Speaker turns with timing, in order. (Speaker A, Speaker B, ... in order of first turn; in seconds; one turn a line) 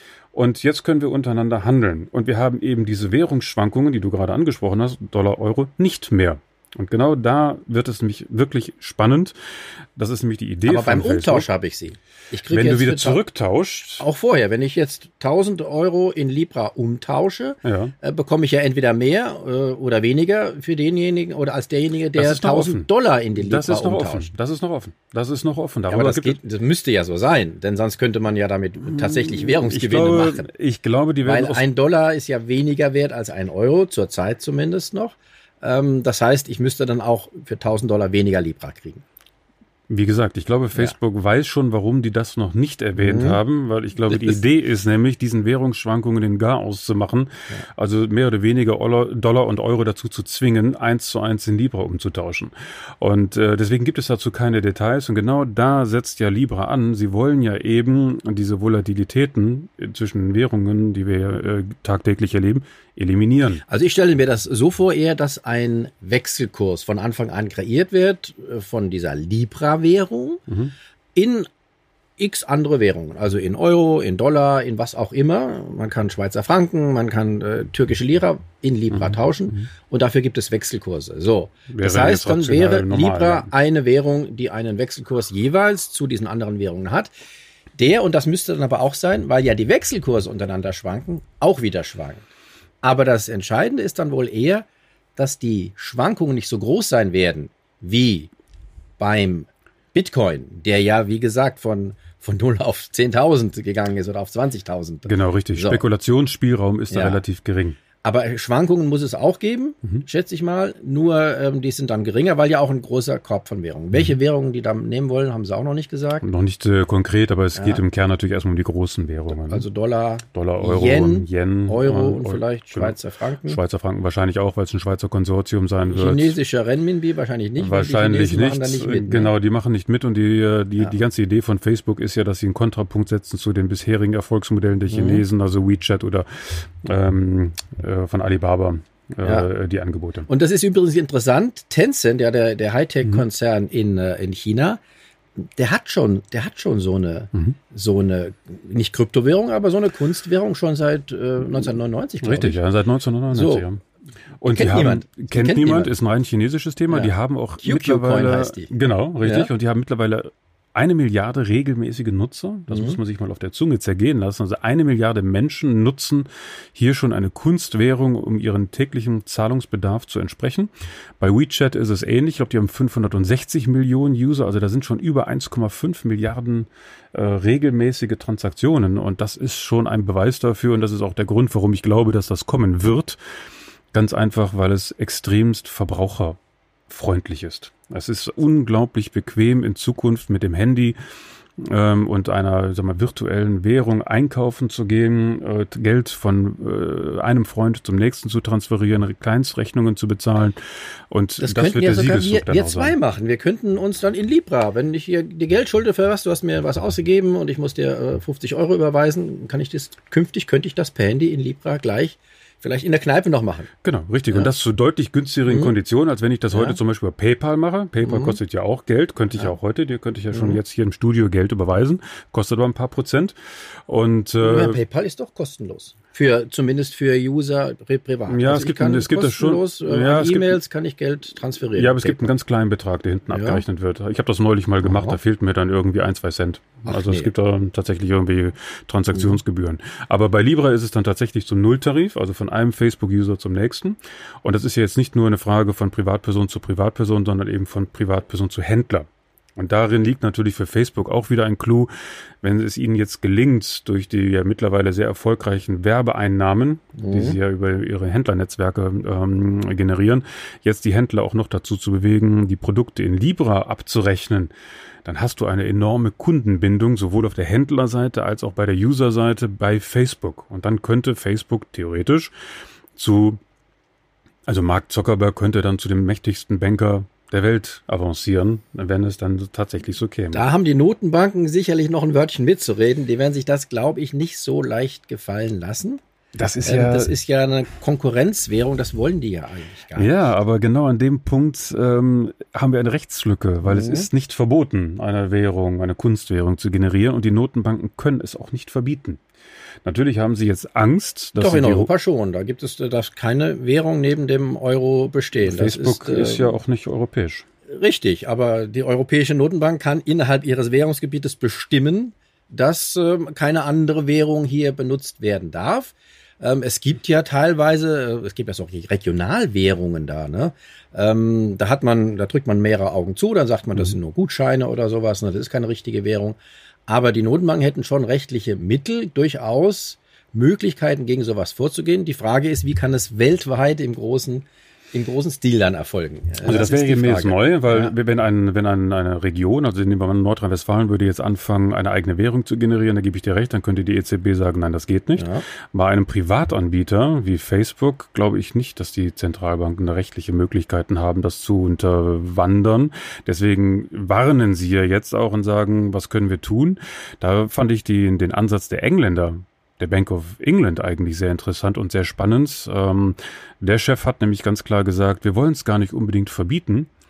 Speaker A: 0.3-9.3
Speaker A: 9.9-11.5
Speaker B: 10.7-13.2
Speaker A: 12.5-14.0
Speaker B: 14.0-24.3
Speaker A: 17.6-17.9
Speaker A: 22.1-26.4
Speaker B: 25.9-30.5
Speaker A: 28.8-31.6
Speaker B: 31.2-39.0
Speaker A: 39.9-63.6
Speaker B: 43.0-43.4
Speaker B: 44.1-44.4
Speaker B: 63.6-70.4
Speaker B: 71.1-71.5
Speaker B: 72.2-87.1
Speaker A: 78.9-79.2
Speaker A: 81.7-83.5
Speaker B: 87.8-92.2
Speaker B: 92.8-98.3
Speaker B: 99.0-105.8
Speaker A: 105.0-107.8
Speaker B: 106.9-107.2
Speaker B: 108.0-116.2
Speaker A: 116.2-119.7
Speaker B: 117.5-117.8
Speaker B: 119.3-123.6
Speaker A: 120.3-126.4
Speaker B: 125.9-129.3
Speaker A: 127.6-140.3
Speaker B: 134.9-135.2
Speaker B: 140.3-144.8
Speaker B: 145.6-152.6
Speaker A: 152.2-153.8
Speaker B: 153.3-153.7
Speaker A: 154.4-183.2
Speaker B: 154.5-155.9
Speaker B: 156.9-159.5
Speaker B: 162.7-163.0
Speaker A: 183.9-190.9
Speaker A: 191.6-200.6
Speaker A: 201.1-203.0
Speaker B: 201.4-213.7
Speaker A: 213.8-223.3
Speaker B: 215.5-215.7
Speaker B: 216.5-216.8
Speaker B: 218.0-218.4
Speaker B: 220.3-220.6
Speaker A: 223.9-224.8
Speaker B: 224.4-232.2
Speaker A: 228.3-230.6
Speaker A: 231.7-251.9
Speaker B: 233.3-233.6
Speaker B: 234.8-235.2
Speaker B: 236.8-237.3
Speaker A: 252.4-264.5
Speaker B: 257.0-257.4
Speaker A: 265.0-272.3
Speaker A: 272.9-273.4
Speaker A: 274.5-280.4
Speaker B: 280.3-286.0
Speaker A: 286.3-287.1
Speaker B: 286.6-290.3
Speaker A: 289.9-299.2
Speaker B: 293.6-294.1
Speaker A: 299.8-301.9
Speaker B: 301.4-306.6
Speaker A: 305.4-307.4
Speaker B: 307.7-337.9
Speaker A: 336.4-366.9
Speaker B: 345.1-345.4